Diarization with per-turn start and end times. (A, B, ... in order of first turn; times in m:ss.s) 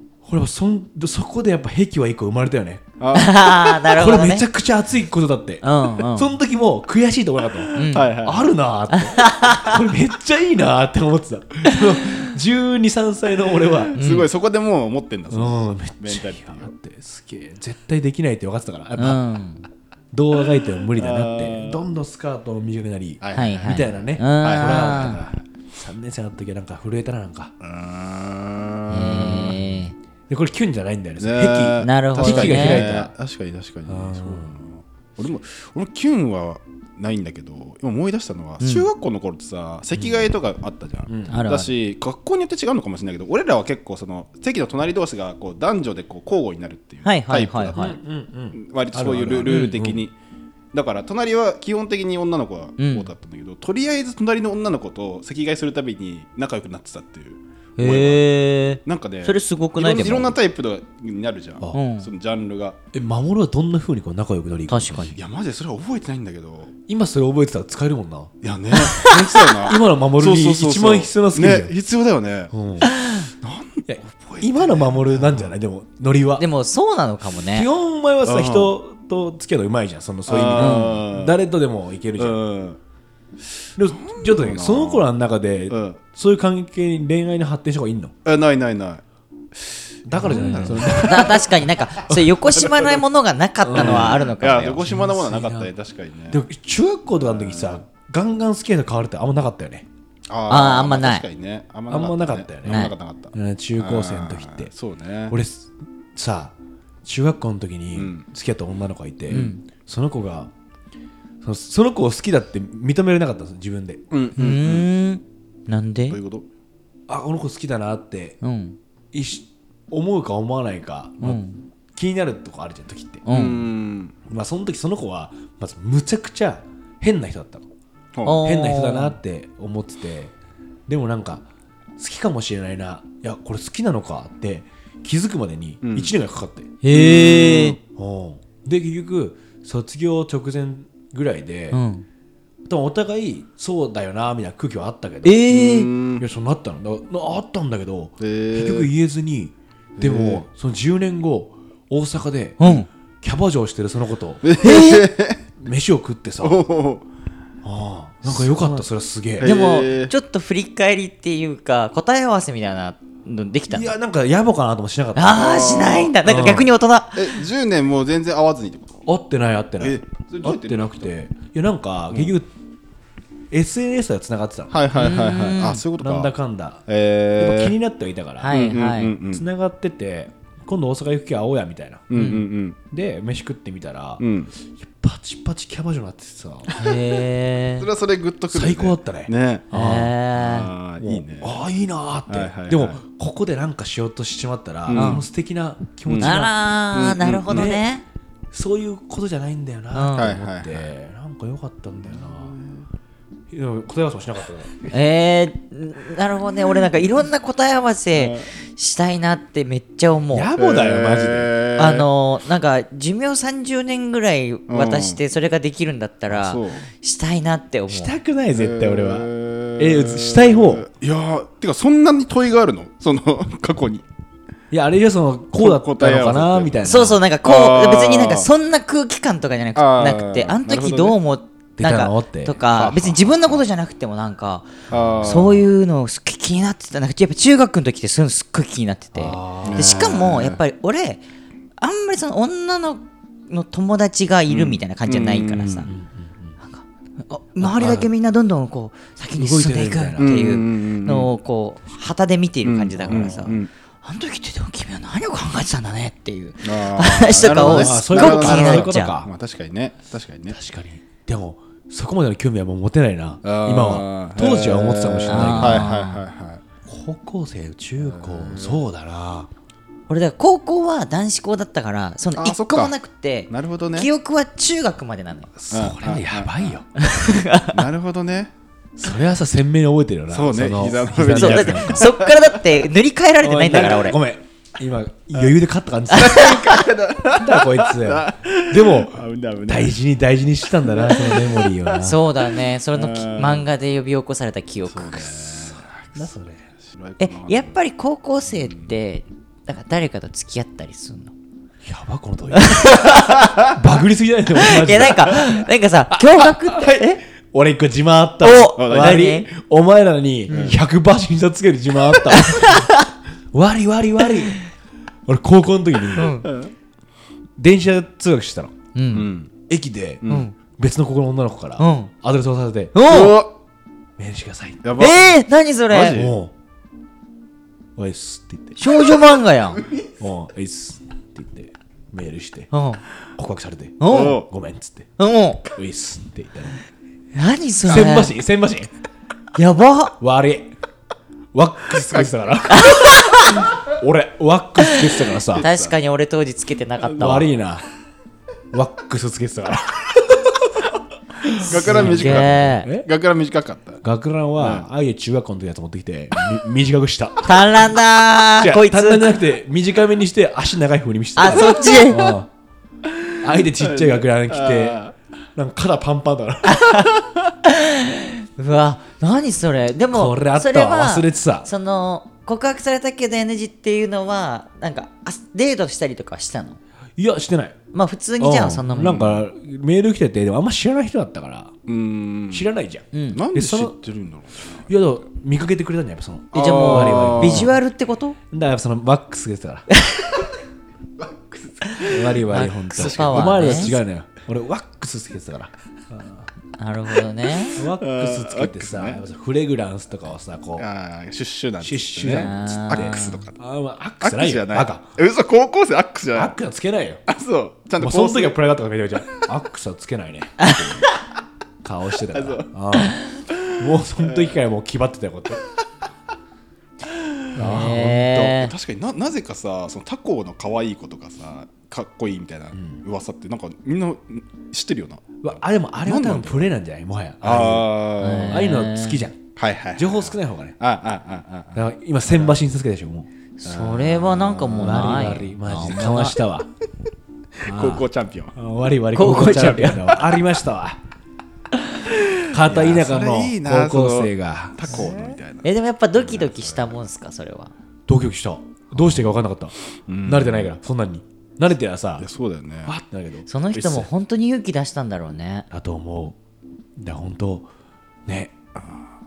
0:00.2-0:02.9 A
0:03.0-0:03.8 B
0:03.1-0:04.5 C
0:03.9-0:14.0 A
0:05.6-0:06.4 C
0:07.8-0:08.2 C
0:07.9-0:08.6 B
0:08.9-0:09.8 C
0:13.8-0:16.7 B
0:14.0-0:14.3 C
0:15.3-0:19.2 A
0:19.0-0:19.7 C
0:20.1-0:27.5 A
0:21.0-0:21.8 B
0:23.2-0:25.4 B
0:23.3-0:25.2 C
0:27.6-0:29.6 B
0:28.9-0:30.0 C
0:29.3-0:29.7 A
0:30.3-0:33.1 A
0:31.2-0:47.9 B
0:31.8-0:32.9 C
0:33.9-0:34.6 A
0:38.6-0:38.9 C
0:40.0-0:40.2 A
0:41.1-0:41.4 A
0:41.3-0:41.7 C
0:47.0-0:48.0 C
0:47.8-0:50.0 A
0:48.6-0:50.1 B
0:49.4-0:49.8 C
0:50.7-0:58.3 B
0:52.8-0:53.1 C
0:57.8-1:00.4 C
0:58.8-1:02.8 B
1:01.7-1:02.1 C
1:02.9-1:05.2 A
1:04.7-1:05.2 C
1:05.1-1:06.7 B
1:06.9-1:08.3 A
1:08.4-1:12.5 B
1:08.7-1:09.5 C
1:09.6-1:11.7 A
1:12.5-1:12.9 A
1:12.8-1:13.3 C
1:13.4-1:15.5 B
1:13.9-1:16.5 A
1:16.4-1:17.7 C
1:17.5-1:22.4 A
1:18.2-1:18.7 B
1:20.3-1:21.4 B
1:20.6-1:21.0 C
1:22.2-1:22.8 B
1:23.8-1:28.1 A
1:23.9-1:25.1 B
1:25.7-1:26.0 B
1:28.2-1:29.0 B
1:29.6-1:31.5 B
1:30.1-1:31.6 A
1:30.3-1:34.9 C
1:32.1-1:33.0 B
1:33.6-1:35.7 A
1:33.7-1:36.4 B
1:36.3-1:39.9 A
1:37.1-1:37.8 B
1:40.3-1:45.4 B
1:40.5-1:41.2 C
1:41.9-1:44.7 A
1:42.7-1:42.9 C
1:45.3-1:50.5 A
1:48.0-1:48.3 B
1:49.3-1:49.6 C
1:51.4-1:54.0 A
1:54.1-1:54.9 B
1:54.4-1:56.2 C
1:56.1-1:56.5 B
1:57.1-1:58.4 A
1:58.4-1:58.8 C
1:59.1-2:01.4 A
2:01.2-2:01.6 C
2:02.0-2:03.2 A
2:03.3-2:03.7 C
2:03.3-2:04.2 B
2:04.3-2:07.7 A
2:08.2-2:08.4 B
2:08.2-2:09.2 C
2:08.4-2:10.3 A
2:10.9-2:11.4 A
2:12.0-2:16.7 A
2:15.8-2:16.1 B
2:16.8-2:17.8 C
2:16.9-2:17.8 B
2:17.9-2:21.8 A
2:21.7-2:22.1 C
2:22.7-2:25.5 A
2:25.2-2:25.9 C
2:25.5-2:26.2 B
2:26.2-2:34.4 A
2:28.2-2:28.9 B
2:30.0-2:30.4 B
2:32.6-2:32.9 C
2:34.4-2:35.4 B
2:34.6-2:35.1 C
2:35.6-2:36.6 A
2:36.4-2:37.0 B
2:37.6-2:39.6 A
2:38.5-2:38.8 C
2:39.4-2:40.1 B
2:39.4-2:43.9 C
2:43.7-2:45.7 A
2:45.2-2:47.3 C
2:45.3-2:46.2 B
2:46.2-2:46.7 A
2:47.1-2:49.0 B
2:49.1-2:52.5 A
2:49.8-2:51.1 B
2:53.5-2:54.7 A
2:54.7-2:56.3 B
2:54.9-2:55.8 C
2:56.0-2:56.8 A
2:56.9-2:57.8 B
2:57.4-2:58.6 A
2:58.4-2:59.2 C
2:58.5-2:59.4 B
2:59.3-3:02.1 A
3:02.1-3:02.8 B
3:02.1-3:02.4 C
3:02.9-3:06.7 A
3:04.2-3:04.5 B
3:06.7-3:07.1 B
3:06.7-3:07.9 C
3:07.8-3:09.7 B
3:08.5-3:10.1 A
3:09.7-3:10.7 C
3:10.4-3:11.6 B
3:11.0-3:16.5 A
3:12.3-3:13.0 B
3:14.9-3:15.2 B
3:14.9-3:15.2 C
3:16.1-3:17.8 B
3:16.2-3:18.0 C
3:17.5-3:17.9 A
3:18.5-3:22.6 A
3:19.9-3:20.3 C
3:20.2-3:20.9 B
3:22.1-3:22.9 B
3:23.5-3:24.7 A
3:24.9-3:30.5 C
3:28.2-3:28.5 B
3:30.3-3:31.5 A
3:30.6-3:32.1 B
3:31.8-3:38.2 C
3:34.7-3:35.2 B
3:36.3-3:36.9 B
3:37.9-3:40.9 A
3:38.6-3:44.0 B
3:44.7-3:47.2 A
3:45.6-3:46.8 B
3:46.8-4:01.2 C
3:47.4-3:48.5 B
3:49.8-3:51.2 B
3:51.8-3:52.6 A
3:52.7-3:53.6 B
3:54.9-3:55.6 B
3:55.0-3:55.4 A
3:59.2-4:00.1 A
3:59.6-4:00.6 B
4:01.8-4:05.9 C
4:04.5-4:05.9 B
4:05.8-4:06.6 A
4:06.6-4:19.2 C
4:07.6-4:08.1 A
4:09.4-4:10.4 A
4:10.2-4:11.3 B
4:12.6-4:13.7 B
4:13.1-4:13.5 A
4:16.6-4:20.6 B
4:17.4-4:19.3 A
4:20.5-4:25.9 A
4:23.4-4:26.6 B
4:25.3-4:26.2 C
4:26.9-4:29.5 A
4:28.0-4:28.8 B
4:30.1-4:35.5 C
4:32.4-4:33.0 B
4:33.5-4:34.1 B
4:35.6-4:36.8 A
4:35.7-4:36.8 B
4:37.0-4:37.9 C
4:37.7-4:38.5 B
4:39.0-4:42.1 A
4:40.3-4:42.7 B
4:41.3-4:44.2 C
4:43.4-4:52.2 A
4:46.1-4:46.6 C
4:46.1-4:50.0 B
4:50.8-4:51.9 B
4:52.0-4:55.7 C
4:52.9-4:53.7 B
4:54.9-4:56.3 B
4:55.8-4:56.7 A
4:56.8-4:57.8 B
4:57.2-5:01.3 C
4:58.5-4:58.9 B
5:01.8-5:12.9 A
5:02.5-5:03.7 C
5:04.6-5:07.2 C
5:08.4-5:09.5 C
5:08.8-5:09.3 B
5:10.5-5:10.8 B
5:12.2-5:13.1 C
5:13.5-5:14.6 A
5:15.3-5:16.4 A
5:16.1-5:16.5 C
5:16.4-5:16.7 B
5:17.6-5:18.8 A
5:19.0-5:19.3 C
5:19.1-5:19.5 B
5:19.7-5:20.3 A
5:20.2-5:20.5 B
5:20.3-5:20.6 C
5:20.8-5:23.0 A
5:21.8-5:22.1 C
5:22.9-5:23.4 C
5:23.0-5:23.5 B
5:24.2-5:24.8 A
5:24.8-5:25.4 B
5:25.0-5:26.2 C
5:25.9-5:26.3 B
5:26.1-5:26.5 A
5:28.0-5:28.8 A
5:28.8-5:29.8 C
5:30.2-5:32.7 A
5:32.7-5:33.0 C
5:33.4-5:35.1 A
5:34.0-5:34.4 C
5:34.1-5:34.5 B
5:35.2-5:35.6 C
5:35.8-5:36.8 A
5:37.3-5:38.4 C
5:37.8-5:38.9 A
5:39.6-5:40.2 C
5:40.2-5:40.7 A
5:41.5-5:45.7 A
5:42.1-5:43.1 B
5:42.7-5:43.7 C
5:44.8-5:47.5 C
5:45.4-5:46.0 B
5:47.2-5:47.8 A
5:48.7-5:50.8 A
5:51.4-5:53.1 A
5:51.6-5:54.0 B
5:51.6-5:52.9 C
5:54.0-5:57.8 A
5:54.6-5:54.9 B
5:57.4-5:59.4 C
5:58.6-6:02.5 A
6:01.4-6:02.3 C
6:03.1-6:05.1 B
6:03.4-6:05.0 A
6:05.6-6:06.9 A
6:06.6-6:07.1 C
6:07.6-6:16.8 C
6:10.1-6:11.7 A
6:17.2-6:17.8 A
6:17.9-6:19.3 C
6:18.4-6:21.8 A
6:19.0-6:19.5 B
6:21.9-6:22.7 B
6:22.5-6:24.0 A
6:23.1-6:23.4 C
6:23.3-6:24.9 B
6:24.9-6:27.8 A
6:26.5-6:27.7 B
6:26.5-6:28.4 C
6:28.5-6:29.9 A
6:31.2-6:34.0 B
6:32.0-6:36.5 A
6:32.4-6:33.9 C
6:36.8-6:37.9 C
6:37.8-6:40.9 A
6:38.0-6:39.2 B
6:40.8-6:43.6 B
6:41.8-6:45.1 A
6:42.3-6:43.4 C
6:44.2-6:46.6 B
6:46.3-6:47.2 A
6:47.3-6:48.7 B
6:48.0-6:50.6 A
6:50.6-6:51.1 C
6:50.6-6:51.1 B
6:51.8-6:53.2 A
6:52.3-6:52.7 B
6:53.5-6:54.6 B
6:53.8-6:55.6 A
6:57.6-6:58.5 A
6:57.6-6:58.7 C
6:58.4-7:06.7 B
7:02.7-7:03.0 A
7:05.4-7:09.4 A
7:07.4-7:08.6 B
7:08.2-7:09.2 C
7:09.6-7:12.6 B
7:10.0-7:10.8 A
7:11.8-7:13.3 A
7:13.6-7:16.4 C
7:13.6-7:15.3 B
7:14.7-7:16.7 A
7:17.6-7:18.6 B
7:17.6-7:21.0 A
7:19.1-7:20.2 C
7:22.2-7:27.0 B
7:22.5-7:25.1 A
7:25.6-7:27.7 C
7:28.1-7:29.7 A
7:28.9-7:29.4 B
7:30.1-7:30.8 B
7:30.2-7:32.3 A
7:32.2-7:33.0 B
7:32.8-7:34.1 A
7:33.5-7:35.7 C
7:35.7-7:36.4 A
7:37.0-7:37.7 A
7:38.3-7:38.5 A
7:38.8-7:39.1 B